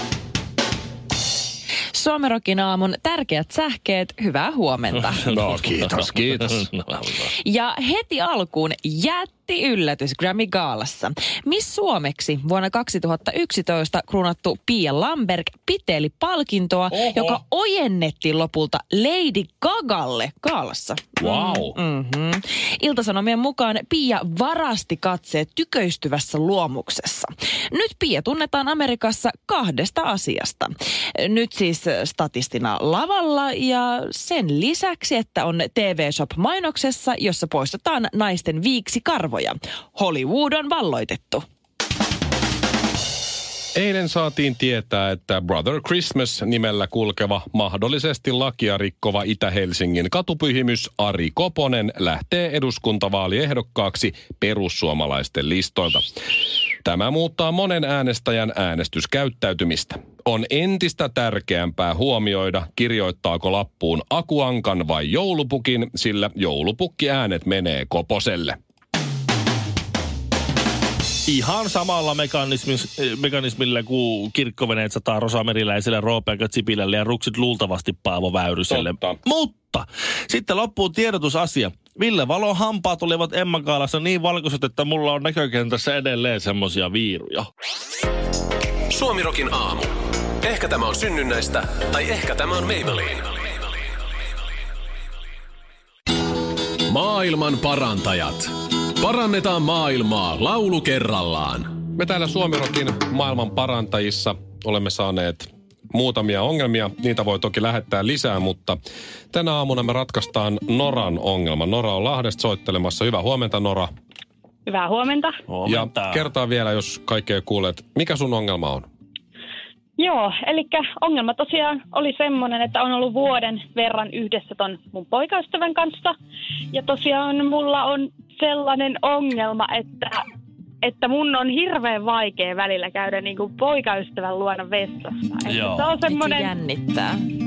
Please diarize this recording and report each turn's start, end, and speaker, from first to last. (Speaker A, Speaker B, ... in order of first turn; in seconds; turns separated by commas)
Speaker A: 1.9-5.2, Speaker B: 5.1-7.3, Speaker C: 5.3-6.7, Speaker A: 7.3-41.5, Speaker C: 16.9-17.4, Speaker C: 21.2-21.8, Speaker C: 43.8-56.0, Speaker C: 56.8-68.6, Speaker B: 71.3-87.5, Speaker C: 78.7-79.2, Speaker D: 88.9-89.9, Speaker D: 90.4-93.5, Speaker D: 96.9-101.7, Speaker C: 101.9-108.8, Speaker C: 109.3-113.9, Speaker E: 114.7-115.4, Speaker B: 115.5-116.3, Speaker C: 115.7-118.9, Speaker E: 120.0-126.1, Speaker E: 126.7-130.2, Speaker E: 130.8-136.5, Speaker B: 135.5-136.0, Speaker A: 136.0-137.3